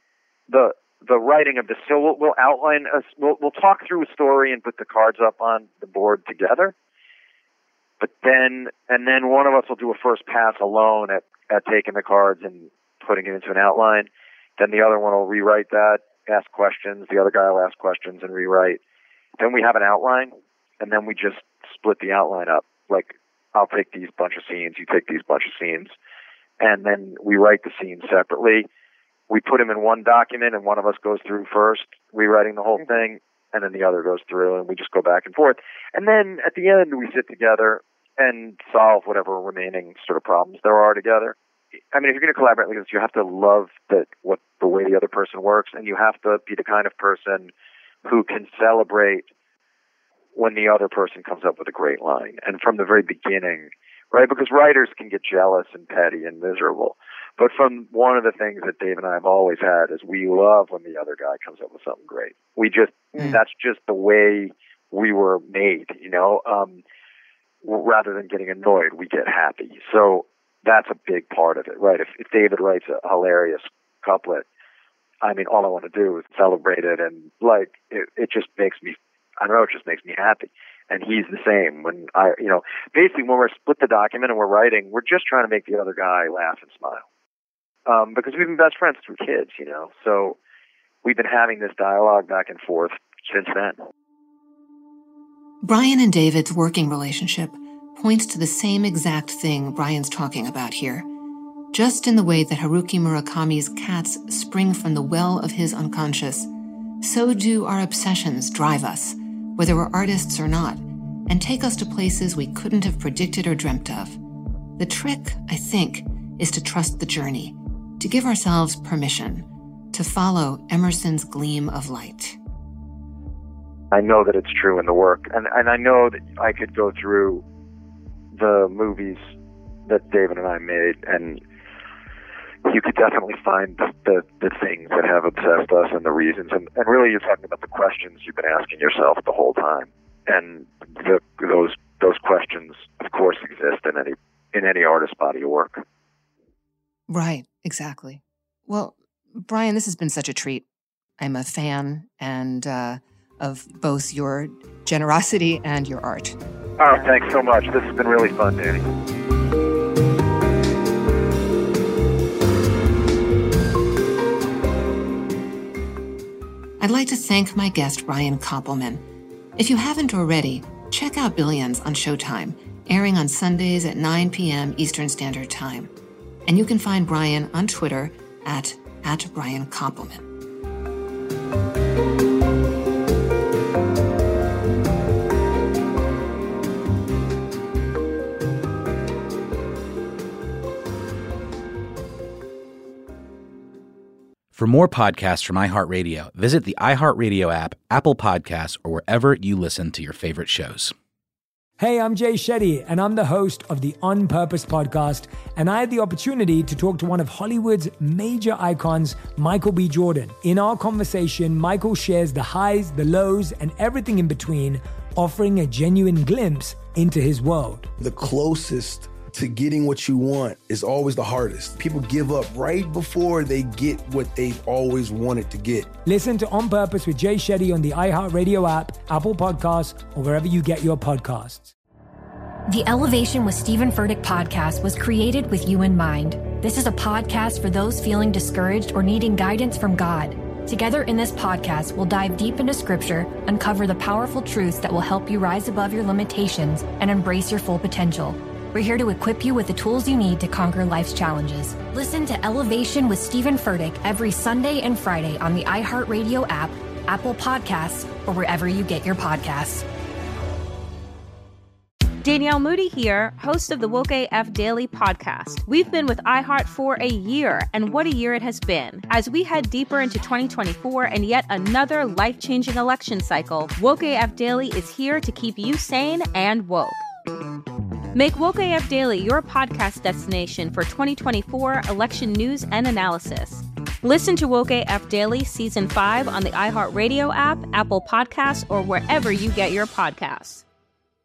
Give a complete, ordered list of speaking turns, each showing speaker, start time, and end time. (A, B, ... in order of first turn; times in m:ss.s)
0:00.5-0:06.7 A
0:08.0-0:18.8 A
0:19.4-0:25.9 A
0:26.6-0:28.7 A
0:29.3-0:41.4 A
0:41.9-0:47.5 A
0:48.0-0:49.3 A
0:50.3-1:06.8 A
1:07.6-1:14.4 A
1:15.2-1:27.0 A
1:27.8-1:30.4 A
1:31.0-1:33.8 A
1:35.6-1:41.1 B
1:41.7-1:46.5 B
1:47.0-1:54.2 B
1:54.8-2:02.4 B
2:03.9-2:07.4 A
2:08.3-2:09.3 A
2:09.9-2:11.4 A
2:12.6-2:25.8 A
2:27.1-2:30.6 B
2:31.2-2:36.4 B
2:36.8-2:38.8 A
2:46.8-2:49.0 B
2:49.6-2:55.9 B
2:56.4-3:00.2 B
3:14.5-3:20.9 C
3:21.8-3:37.9 D
3:38.0-3:45.9 E
3:46.0-3:51.7 D
3:52.7-4:19.8 F
4:22.2-4:37.0 G
4:38.1-4:50.6 G